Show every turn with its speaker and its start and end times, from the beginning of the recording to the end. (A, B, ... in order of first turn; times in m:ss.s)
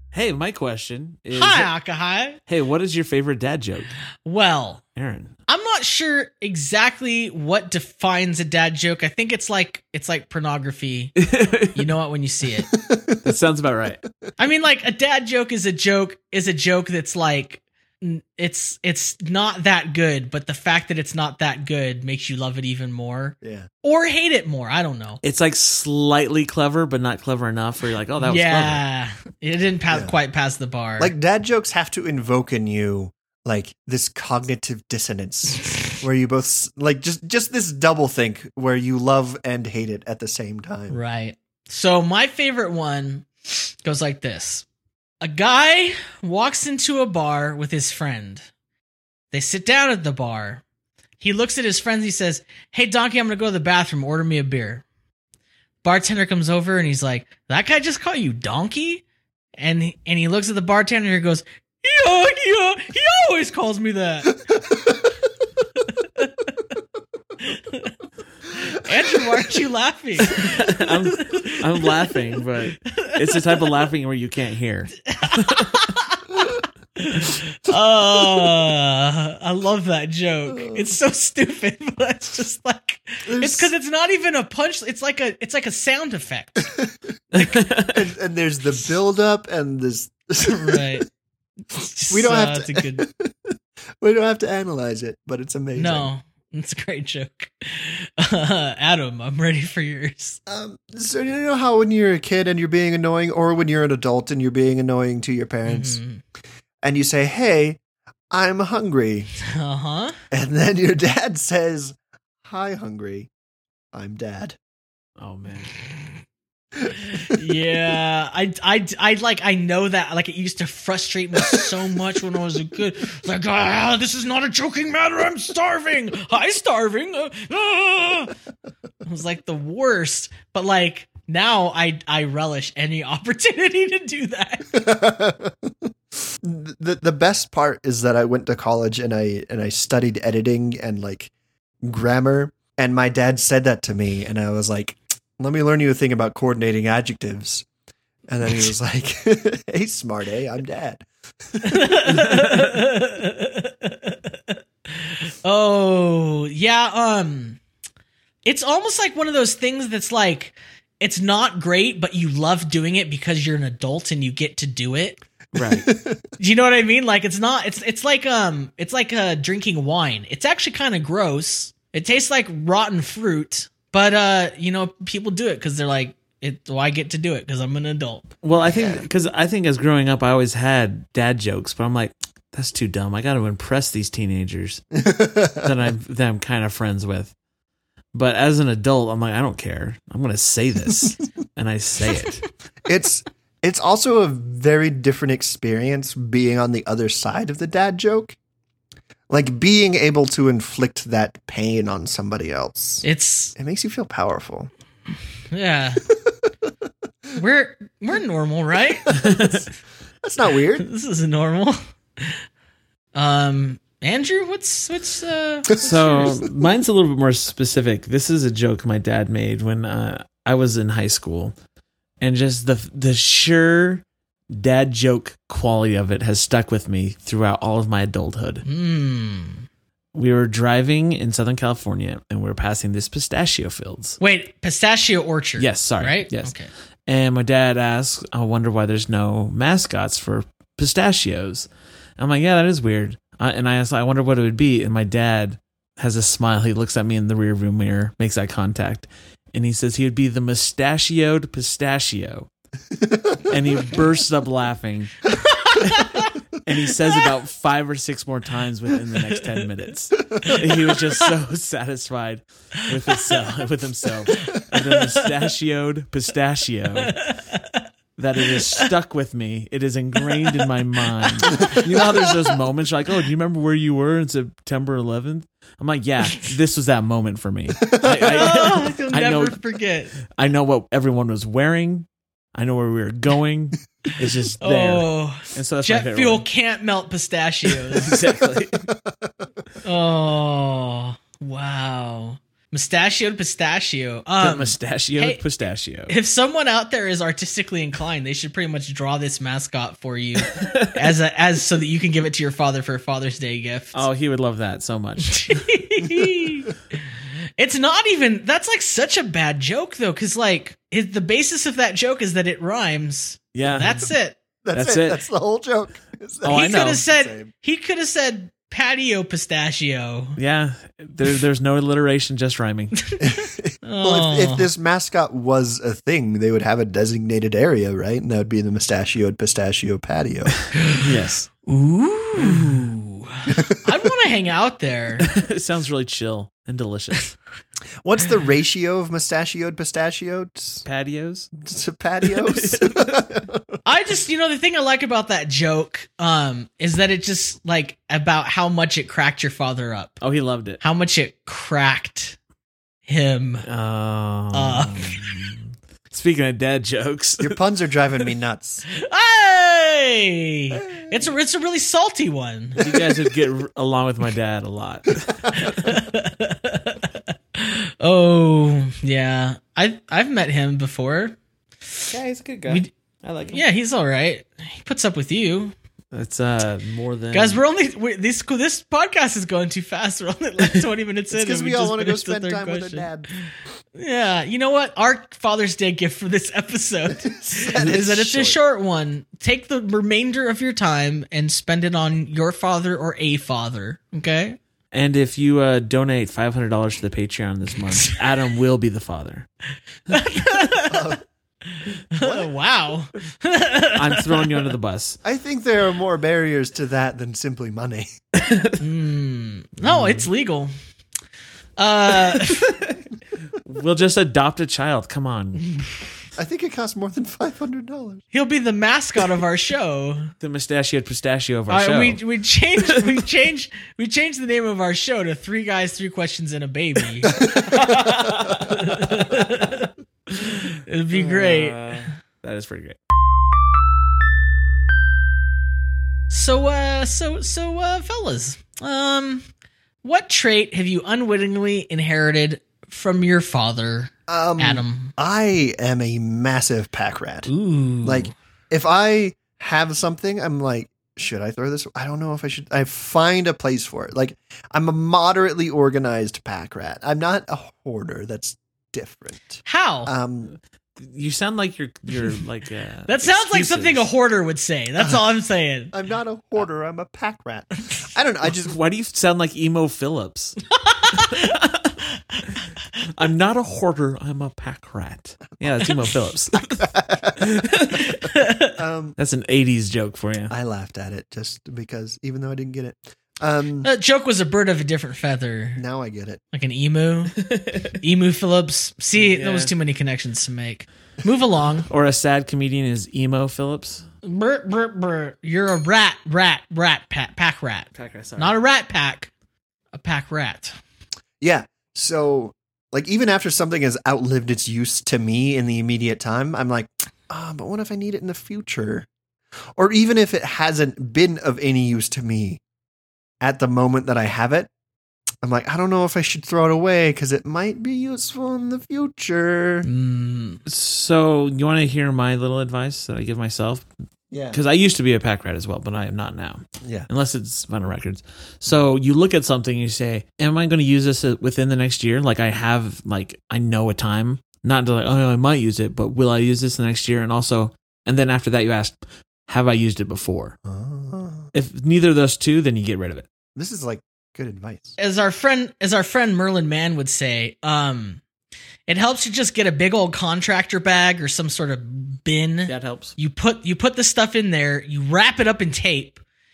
0:00.1-0:01.7 A
0:01.3-0:02.4 B
0:02.5-0:03.9 A
0:04.2-0:04.8 B
0:05.0-0:05.4 A
0:05.5-0:11.1 B
0:11.2-0:11.9 A
0:11.7-0:12.7 B
0:12.7-0:13.2 C
0:13.2-0:14.0 A
0:14.4-0:25.2 B
0:23.4-0:23.7 C
0:25.2-0:28.8 A
0:28.2-0:31.1 B
0:31.0-0:41.0 C
0:40.9-0:44.6 B
0:45.2-0:48.4 B
0:49.3-0:50.6 B
0:51.2-0:54.8 B
0:55.8-0:59.0 B
0:59.6-1:04.4 B
1:07.4-1:07.9 B
1:08.6-1:13.7 B
1:09.0-1:09.4 C
1:10.2-1:15.9 A
1:15.1-1:16.3 B
1:17.0-1:26.7 B
1:18.2-1:18.5 C
1:20.5-1:20.9 C
1:23.2-1:23.7 C
1:27.3-1:28.1 A
1:27.7-1:31.0 C
1:30.5-1:31.1 B
1:31.7-1:33.0 B
1:32.1-1:36.1 C
1:35.8-1:40.4 B
1:40.5-1:46.0 C
1:45.7-1:46.2 B
1:46.8-1:47.8 C
1:48.3-1:49.3 C
1:49.5-1:50.2 B
1:50.3-1:53.3 C
1:53.9-1:54.6 C
1:55.2-1:55.7 A
1:56.8-1:57.4 C
1:57.2-2:08.3 B
2:09.0-2:14.8 B
2:14.7-2:15.7 C
2:16.4-2:21.3 C
2:21.8-2:27.7 C
2:28.3-2:32.2 C
2:31.6-2:37.6 B
2:32.1-2:32.8 A
2:38.4-2:45.2 B
2:45.5-2:45.9 A
2:45.7-2:46.2 C
2:46.4-2:58.3 B
2:58.4-3:07.3 A
2:58.7-2:59.0 C
3:05.0-3:05.7 C
3:08.1-3:12.4 A
3:12.9-3:18.4 C
3:19.3-3:23.0 C
3:23.0-3:23.6 B
3:23.6-3:24.7 C
3:25.5-3:26.0 B
3:27.4-3:29.6 B
3:29.1-3:29.6 C
3:29.1-3:29.6 A
3:30.2-3:30.9 C
3:30.8-3:32.4 B
3:33.1-3:36.4 B
3:35.8-3:36.4 C
3:35.8-3:41.6 A
3:42.2-3:48.6 A
3:48.6-3:49.7 B
3:50.1-3:54.2 A
3:54.2-3:56.7 B
3:55.6-3:56.5 A
3:57.1-4:12.5 A
4:13.0-4:13.5 C
4:13.5-4:15.2 A
4:15.5-4:16.3 B
4:15.8-4:16.1 A
4:16.6-4:27.1 A
4:20.4-4:21.3 B
4:22.9-4:23.4 B
4:24.3-4:25.4 B
4:27.0-4:27.7 B
4:28.2-4:39.6 A
4:28.6-4:28.9 B
4:30.3-4:32.6 B
4:37.8-4:38.2 C
4:38.2-4:40.2 B
4:40.3-4:46.5 A
4:44.6-4:48.2 B
4:47.9-4:48.9 A
4:49.8-4:55.4 B
4:54.4-4:56.1 A
4:56.1-5:04.0 B
5:00.5-5:01.1 A
5:03.9-5:05.6 A
5:05.2-5:06.8 B
5:07.6-5:14.4 B
5:13.5-5:14.1 A
5:14.6-5:17.5 C
5:14.7-5:15.2 A
5:16.4-5:17.0 A
5:16.5-5:20.4 B
5:20.4-5:23.0 A
5:23.0-5:24.7 B
5:23.2-5:30.6 C
5:30.8-5:31.1 B
5:31.0-5:31.5 A
5:31.7-5:35.3 B
5:32.4-5:32.9 A
5:33.5-5:33.8 C
5:35.2-5:37.3 A
5:38.0-5:40.9 C
5:40.9-5:41.5 A
5:41.6-5:43.8 C
5:42.2-5:43.2 A
5:43.9-5:50.2 B
5:50.2-5:50.8 A
5:50.8-5:52.4 B
5:53.1-5:53.7 B
5:53.6-5:57.6 A
5:54.5-5:55.3 B
5:57.4-5:58.9 C
5:58.9-6:02.8 B
6:00.8-6:01.2 C
6:02.8-6:05.9 A
6:05.5-6:11.4 B
6:11.9-6:12.1 B
6:12.1-6:13.6 A
6:13.5-6:15.7 B
6:16.1-6:17.6 A
6:17.3-6:23.4 B
6:21.3-6:23.3 C
6:24.0-6:34.6 B
6:27.3-6:28.6 C
6:34.9-6:39.5 A
6:40.1-6:41.1 B
6:40.9-6:41.2 C
6:41.7-6:44.6 B
6:42.2-6:42.5 C
6:44.0-6:45.2 A
6:45.2-6:48.1 C
6:48.3-6:48.8 A
6:48.8-6:50.7 B
6:49.8-6:50.3 A
6:51.8-6:52.8 B
6:52.3-6:53.0 A
6:53.6-6:55.8 A
6:56.4-6:58.2 C
6:58.3-7:00.3 B
7:00.4-7:02.2 A
7:01.7-7:09.9 B
7:02.8-7:03.2 A
7:07.4-7:08.0 C
7:07.8-7:09.4 A
7:10.7-7:12.0 B
7:11.1-7:13.0 A
7:16.3-7:19.4 B
7:20.0-7:25.1 B
7:24.3-7:27.5 C
7:27.5-7:28.3 B
7:28.0-7:40.6 C
7:39.7-7:40.1 B
7:41.0-7:44.1 A
7:43.1-7:45.9 B
7:45.9-7:48.8 C
7:48.6-7:50.6 A
7:50.8-7:51.6 B
7:51.1-7:52.0 A
7:53.1-7:56.8 A
7:56.8-7:57.5 C
7:57.4-7:58.1 A
7:58.1-7:58.7 B
7:58.8-7:59.2 C
7:59.2-8:00.5 A
8:00.5-8:03.9 C
8:03.8-8:05.8 B
8:05.8-8:06.4 C
8:06.5-8:07.4 B
8:07.4-8:08.0 A
8:07.9-8:11.9 B
8:09.1-8:09.7 A
8:11.9-8:14.1 A
8:14.2-8:19.3 B
8:17.9-8:18.6 A
8:19.9-8:20.8 B
8:21.4-8:29.1 C
8:29.8-8:32.6 C
8:33.4-8:34.7 C
8:35.4-8:39.9 C
8:39.8-8:40.6 B
8:40.6-8:43.9 A
8:44.3-8:44.6 C
8:44.5-9:00.6 A
8:46.8-8:47.1 C
9:00.6-9:01.5 C
9:01.5-9:03.3 A
9:03.6-9:05.0 C
9:05.0-9:08.2 B
9:08.9-9:16.2 B
9:12.7-9:13.1 A